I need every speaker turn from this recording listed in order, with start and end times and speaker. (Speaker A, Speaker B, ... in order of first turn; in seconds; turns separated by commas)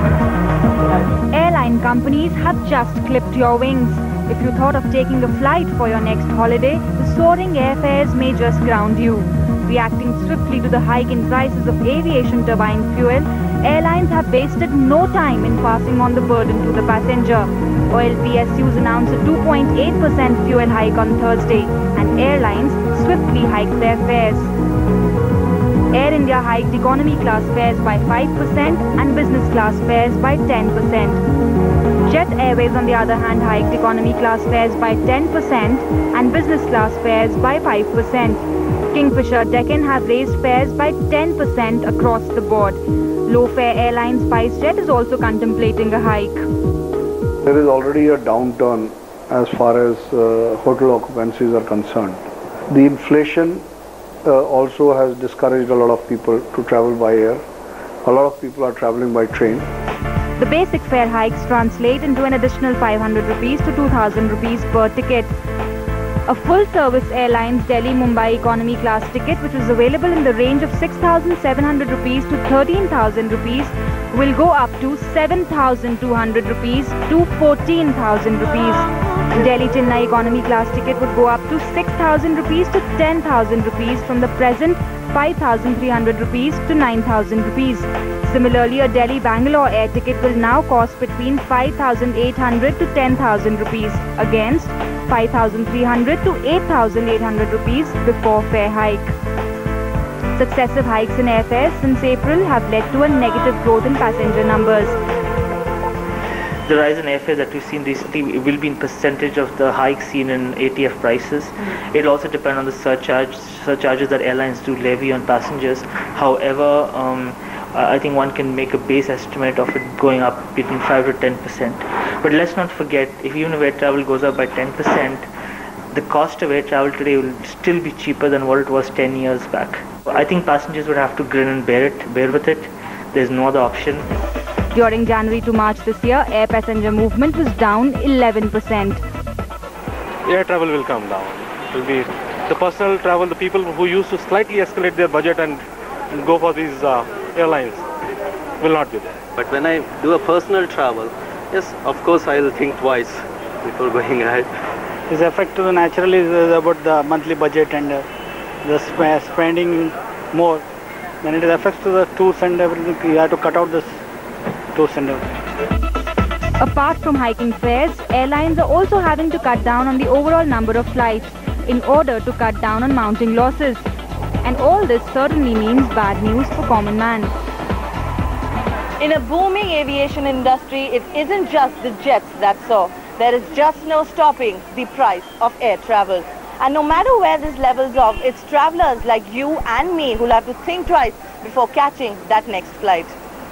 Speaker A: 1.3-24.5, Speaker A: 25.9-31.2, Speaker A: 32.0-46.4, Speaker B: 47.4-53.6, Speaker B: 54.2-57.4, Speaker B: 58.0-59.7, Speaker A: 60.4-65.3, Speaker A: 66.3-99.1, Speaker A: 100.4-105.0, Speaker C: 106.7-125.3, Speaker C: 125.9-134.1, Speaker A: 134.7-139.0, Speaker D: 140.3-145.6, Speaker D: 146.1-147.9, Speaker D: 148.6-149.2, Speaker E: 149.3-154.5, Speaker F: 155.1-158.0, Speaker F: 158.7-160.6, Speaker F: 161.2-163.9, Speaker F: 164.8-165.2, Speaker A: 166.6-173.8, Speaker A: 174.4-177.3, Speaker G: 179.0-193.2